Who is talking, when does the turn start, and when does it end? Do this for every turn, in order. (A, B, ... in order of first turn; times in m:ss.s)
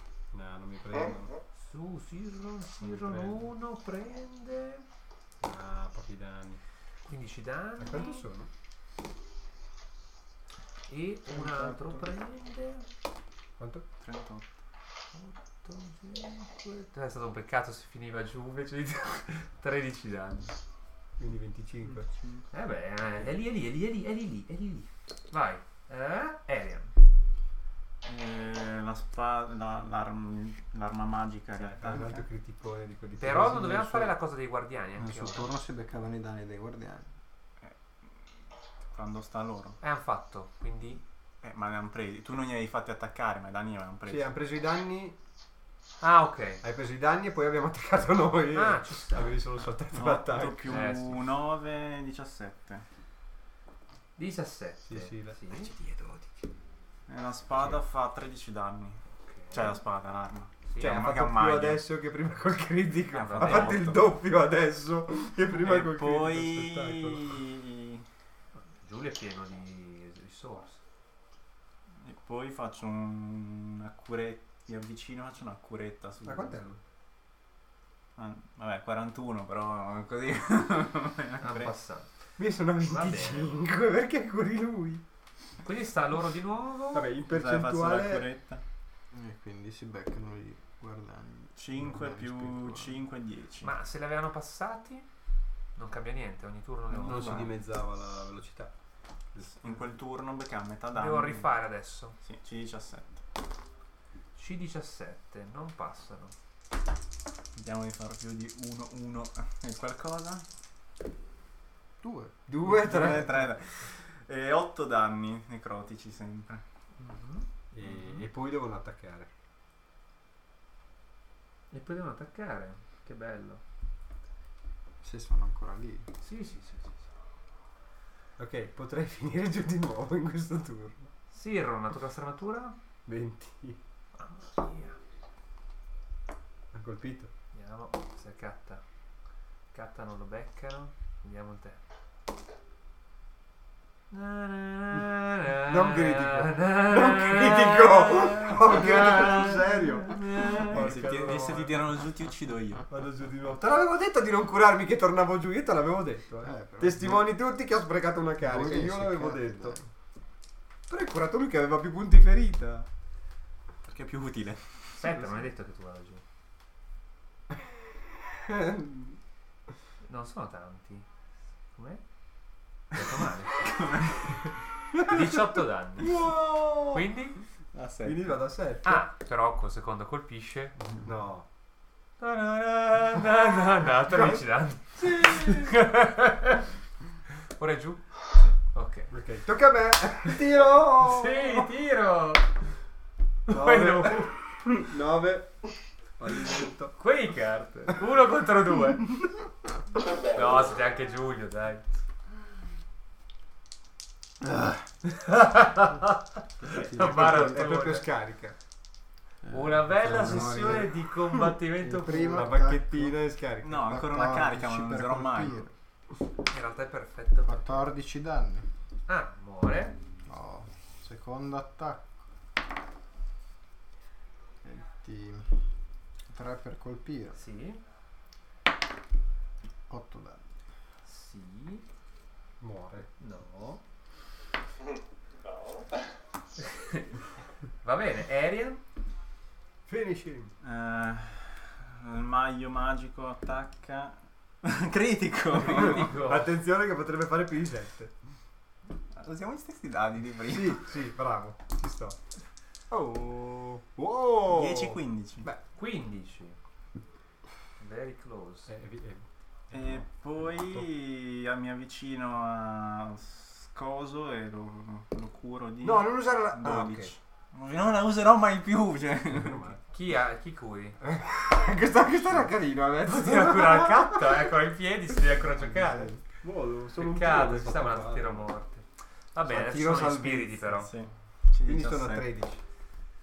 0:00.3-0:01.3 A
0:01.0-0:01.3 B
0:01.6-0:04.8 C
0:02.8-0:03.5 A
0:05.4-0:06.6 A
0:07.1-0:08.2 C
0:07.8-0:08.5 A
0:10.9-0:12.9 C
0:13.6-0:13.9 A
0:14.0-0:14.4 D
0:15.1-0:20.6 C
0:21.2-0:22.1 A
0:22.0-0:22.4 D
0:22.5-0:26.9 C
0:28.0-0:32.2 D
0:31.6-0:34.1 A
0:33.2-0:35.5 C
0:35.0-0:37.1 E
0:38.9-0:39.8 D
0:39.8-0:41.0 C
0:41.4-0:44.3 D
0:44.1-0:45.2 A
0:46.0-0:46.6 C
0:46.6-0:50.9 A
0:48.5-0:49.4 C
0:49.9-0:52.8 D
0:50.7-0:51.2 C
0:54.2-0:55.7 C
0:54.9-0:56.4 A
0:57.1-1:01.8 D
0:59.2-0:59.8 C
1:00.7-1:01.0 C
1:00.8-1:07.4 A
1:03.1-1:03.9 C
1:03.2-1:04.1 D
1:05.5-1:08.1 D
1:08.8-1:10.8 C
1:12.0-1:16.6 D
1:16.2-1:16.8 A
1:18.2-1:21.7 D
1:21.4-1:22.1 C
1:22.4-1:25.0 A
1:22.8-1:23.6 C
1:25.6-1:27.1 C
1:26.9-1:28.3 A
1:27.3-1:28.6 D
1:29.1-1:33.0 E
1:31.6-1:33.7 D
1:33.6-1:35.1 C
1:35.8-1:37.5 C
1:36.9-1:38.7 A
1:37.0-1:37.4 D
1:39.3-1:39.7 A
1:39.4-1:41.5 D
1:40.9-1:42.2 C
1:42.2-1:43.2 D
1:44.4-1:46.3 C
1:47.6-1:50.4 D
1:52.0-1:52.4 E
1:52.5-1:53.5 A
1:52.6-1:56.6 D
1:57.0-1:58.2 C
1:57.7-1:59.3 A
2:01.7-2:03.6 C
2:05.0-2:06.1 E
2:06.2-2:07.1 C
2:08.4-2:11.1 A
2:11.3-2:12.8 C
2:13.1-2:13.8 A
2:14.2-2:15.0 C
2:16.7-2:17.3 A
2:17.5-2:18.8 C
2:19.7-2:21.8 C
2:24.1-2:30.8 C
2:25.6-2:31.8 A
2:30.5-2:32.8 D
2:32.9-2:39.8 A
2:36.4-2:37.2 E
2:38.4-2:39.8 E
2:40.9-2:42.9 A
2:43.8-2:45.0 D
2:45.0-2:46.2 C
2:47.5-2:49.2 A
2:50.0-2:51.1 C
2:51.7-2:52.0 C
2:52.9-2:53.7 C
2:53.6-2:54.4 D
2:55.0-2:56.2 C
2:55.0-2:55.3 A
2:56.0-2:57.0 A
2:56.9-2:57.4 C
2:57.7-2:58.4 D
2:58.0-2:59.0 A
2:58.8-3:00.8 C
3:01.0-3:01.4 A
3:02.2-3:06.6 C
3:04.1-3:04.4 A
3:05.0-3:05.8 A
3:07.6-3:09.1 C
3:09.1-3:11.7 A
3:10.3-3:12.5 C
3:13.5-3:14.3 C
3:13.5-3:15.6 A
3:16.2-3:17.0 A
3:17.0-3:19.4 C
3:19.9-3:20.8 B
3:20.3-3:21.9 C
3:24.4-3:24.8 E
3:25.1-3:28.1 C
3:26.6-3:27.7 E
3:26.9-3:28.6 A
3:29.4-3:31.1 E
3:29.5-3:32.5 C
3:31.8-3:33.2 E
3:32.1-3:33.9 A
3:33.6-3:35.6 D
3:33.7-3:35.7 E
3:36.5-3:37.9 C
3:37.4-3:38.7 E
3:39.1-3:40.0 C
3:40.3-3:42.1 E
3:44.6-3:45.6 E
3:46.3-3:47.4 E
3:47.4-3:47.8 C
3:49.9-3:50.4 E
3:51.0-3:51.8 C
3:52.6-3:53.1 A
3:53.2-3:53.8 C
3:54.8-3:56.0 B
3:56.6-3:57.2 C
3:57.8-3:58.8 C
3:59.9-4:00.5 A
4:00.6-4:06.2 D
4:05.6-4:06.5 C
4:05.7-4:08.1 A
4:09.1-4:10.8 D
4:10.5-4:12.2 A
4:12.9-4:15.6 A
4:14.4-4:15.5 D
4:15.8-4:16.6 C
4:17.8-4:18.7 C
4:18.7-4:20.0 A
4:19.7-4:29.7 D
4:25.8-4:27.1 A
4:29.3-4:29.8 A
4:29.9-4:31.0 C
4:31.0-4:34.5 A
4:33.0-4:36.1 C
4:35.6-4:36.2 E
4:36.4-4:38.5 A
4:37.0-4:40.9 C
4:39.4-4:40.9 A
4:40.9-4:42.3 D
4:41.6-4:42.6 A